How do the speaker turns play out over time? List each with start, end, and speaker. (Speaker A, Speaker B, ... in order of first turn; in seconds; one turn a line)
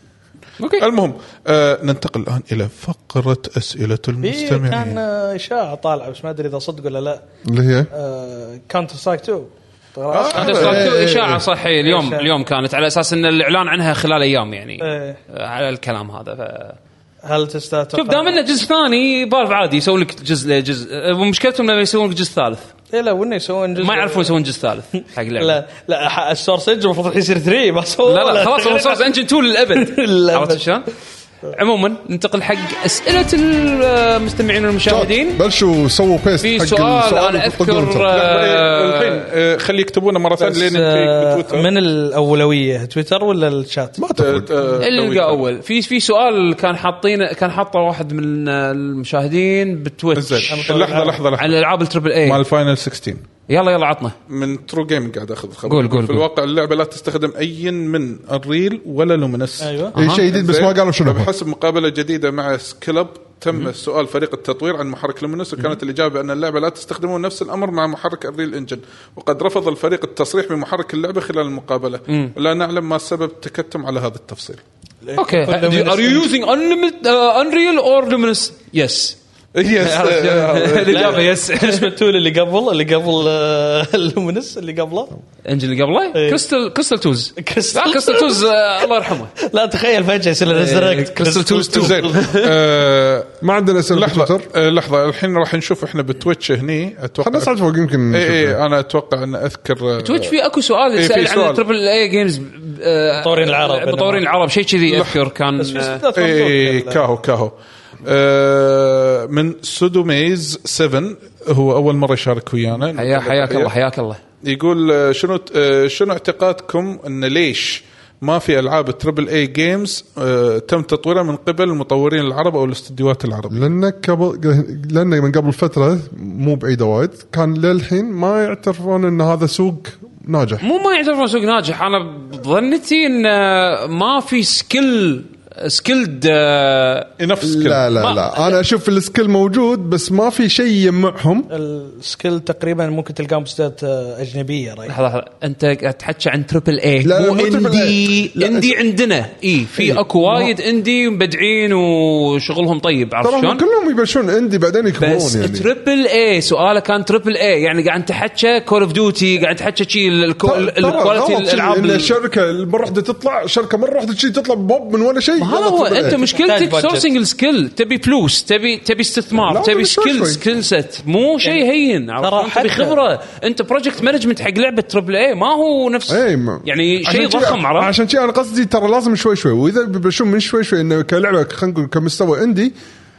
Speaker A: 0.6-0.8
Speaker B: 0.8-5.0
Speaker C: 4.2-7.2
Speaker D: 7.5-7.9
Speaker C: 7.9-10.9
Speaker B: 10.1-10.9
Speaker A: 10.3-16.8
Speaker D: 10.5-11.4
Speaker C: 11.8-12.3
Speaker C: 14.8-15.2
Speaker C: 17.2-18.4
Speaker A: 17.9-22.7
Speaker C: 22.9-24.3
Speaker A: 23.8-25.6
Speaker C: 25.4-29.1
Speaker A: 28.0-30.9
Speaker C: 29.7-30.6
Speaker A: 31.5-35.4
Speaker D: 34.9-38.1
Speaker A: 36.4-39.2
Speaker B: 38.1-41.7
Speaker C: 40.4-44.0
Speaker D: 44.0-44.5
Speaker B: 44.2-45.4
Speaker A: 44.8-50.7
Speaker B: 50.1-51.5
Speaker C: 50.5-51.2
Speaker A: 51.4-52.4
Speaker B: 52.2-53.2
Speaker A: 53.5-54.1
Speaker B: 54.3-74.6
Speaker A: 55.7-56.2
Speaker C: 59.6-59.9
Speaker A: 60.0-60.3
Speaker D: 60.0-61.3
Speaker C: 75.0-76.3
Speaker A: 75.2-79.2
Speaker B: 79.5-81.3
Speaker A: 79.8-81.9
Speaker C: 80.9-85.1
Speaker A: 85.5-89.3
Speaker C: 86.1-86.4
Speaker C: 87.4-88.4
Speaker C: 89.3-92.3
Speaker A: 90.5-92.5
Speaker B: 91.7-93.4
Speaker D: 93.4-94.5
Speaker B: 93.9-97.5
Speaker D: 97.2-98.6
Speaker B: 98.1-100.3
Speaker A: 100.0-106.0
Speaker B: 101.0-101.6
Speaker C: 103.2-104.2
Speaker B: 104.9-105.2
Speaker C: 105.6-107.0
Speaker B: 106.1-113.7
Speaker A: 112.9-114.2
Speaker B: 114.4-123.7
Speaker D: 123.5-130.6
Speaker A: 130.6-137.1
Speaker B: 137.2-137.9
Speaker D: 137.4-141.5
Speaker A: 137.9-138.6
Speaker C: 141.5-144.9
Speaker A: 144.9-153.6
Speaker D: 147.0-148.8
Speaker D: 149.8-150.5
Speaker D: 153.2-155.7
Speaker A: 155.0-162.1
Speaker D: 160.4-166.2
Speaker A: 165.4-177.9
Speaker C: 166.1-167.1
Speaker D: 169.4-170.4
Speaker C: 172.2-173.0
Speaker D: 176.1-182.7